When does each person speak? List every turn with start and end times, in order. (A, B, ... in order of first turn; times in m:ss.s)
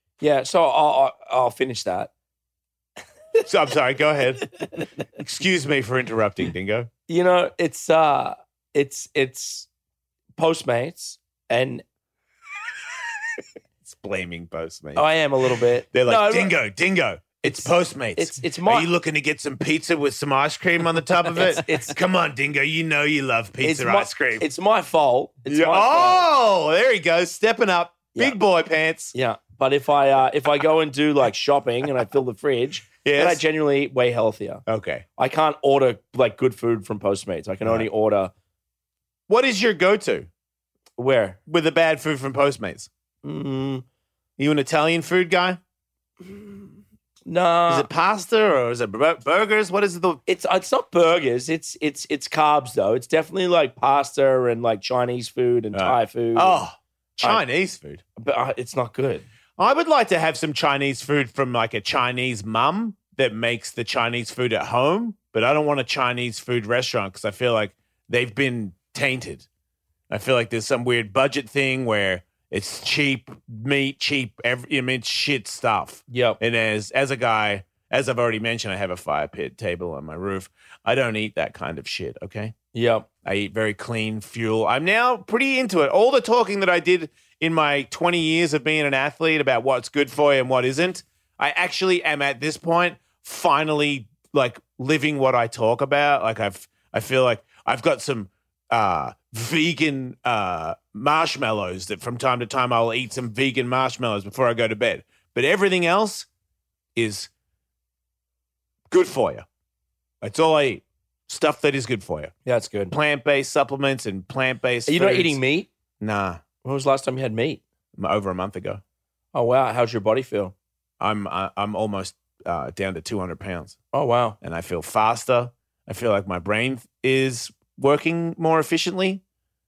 0:00.2-0:02.1 A
0:03.4-0:04.5 B
0:05.2-0:06.9 B
0:07.1-0:09.7 A
0:10.4-0:11.8 A
0:13.8-0:15.1 B
0:15.0-0:16.6 A
0:15.9-0:24.5 B
0:17.4-0:18.9 A
0:21.3-0:22.0 A
0:23.6-0:26.3 A
0:25.5-0:29.1 B
0:29.1-0:34.6 A
0:33.0-0:33.4 B
0:34.7-0:35.0 B
0:35.2-0:38.3 A
0:39.3-0:40.3 B
0:41.0-0:41.4 A
0:41.5-0:42.9 B
0:43.2-0:43.8 A
0:44.4-0:45.6 B
0:46.2-0:46.6 A
0:47.3-0:47.9 A
0:47.7-0:50.2 B
0:50.3-0:56.6 A
0:55.7-0:58.0 B
0:58.2-0:59.3 A
0:59.6-1:09.5 B
1:10.1-1:22.6 B
1:16.1-1:16.4 A
1:22.7-1:23.1 A
1:23.2-1:46.3 B
1:47.0-1:47.3 B
1:48.9-1:49.5 B
1:50.2-1:52.3 B
1:52.5-1:53.0 A
1:52.9-1:55.4 B
1:54.9-1:55.7 A
1:56.0-1:56.4 B
1:56.6-1:57.6 A
1:58.0-1:58.8 B
1:59.3-2:00.5 A
2:01.0-2:03.8 B
2:03.9-2:04.4 A
2:04.4-2:09.2 B